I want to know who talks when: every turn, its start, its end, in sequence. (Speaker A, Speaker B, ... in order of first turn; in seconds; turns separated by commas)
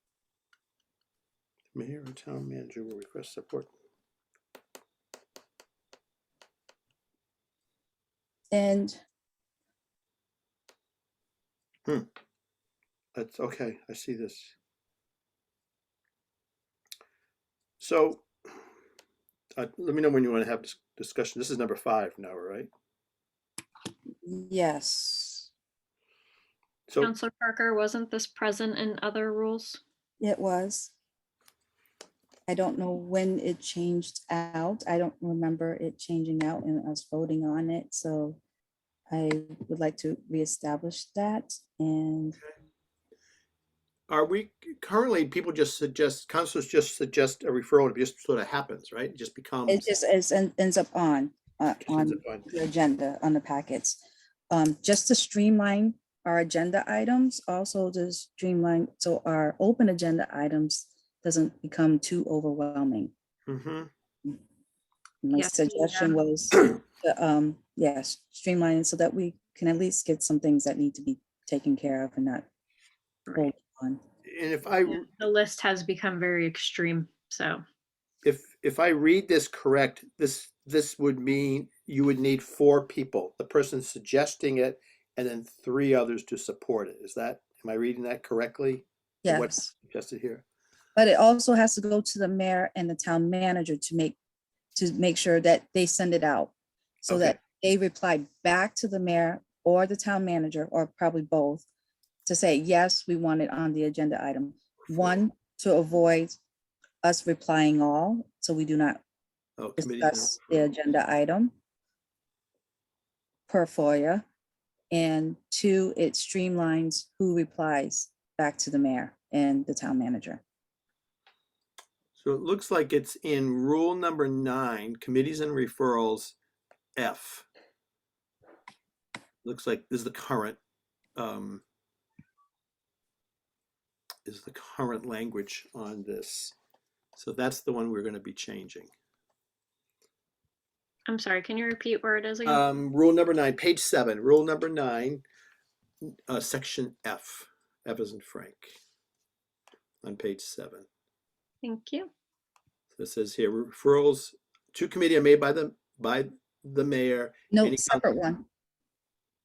Speaker A: 1.7-3.7, Speaker B: 8.5-9.0, Speaker A: 13.2-14.5, Speaker A: 17.8-18.3, Speaker A: 19.6-22.7, Speaker B: 24.2-25.5, Speaker C: 27.0-29.8, Speaker B: 30.2-30.9, Speaker B: 32.5-38.4, Speaker B: 39.1-42.4, Speaker A: 44.1-49.9, Speaker B: 49.7-63.1, Speaker A: 51.8-52.5, Speaker A: 63.5-63.9, Speaker B: 65.2-72.5, Speaker C: 65.3-66.2, Speaker B: 73.3-74.0, Speaker A: 74.2-75.1, Speaker C: 74.8-77.6, Speaker A: 78.2-90.4, Speaker B: 89.2-89.7, Speaker B: 91.0-94.1, Speaker B: 94.7-101.7, Speaker A: 97.1-97.4, Speaker B: 102.2-106.4, Speaker A: 104.9-105.2, Speaker B: 107.0-109.0, Speaker A: 109.6-110.7, Speaker B: 109.8-111.5, Speaker B: 113.5-114.2, Speaker B: 114.9-120.4, Speaker A: 122.1-126.3, Speaker A: 127.0-127.5, Speaker A: 129.4-130.6, Speaker A: 131.2-131.6, Speaker A: 134.2-136.5, Speaker A: 137.2-138.9, Speaker C: 141.1-142.6, Speaker A: 142.4-145.2, Speaker A: 146.0-148.8, Speaker A: 150.0-150.9, Speaker C: 151.6-152.1, Speaker A: 152.9-158.1, Speaker B: 157.5-158.4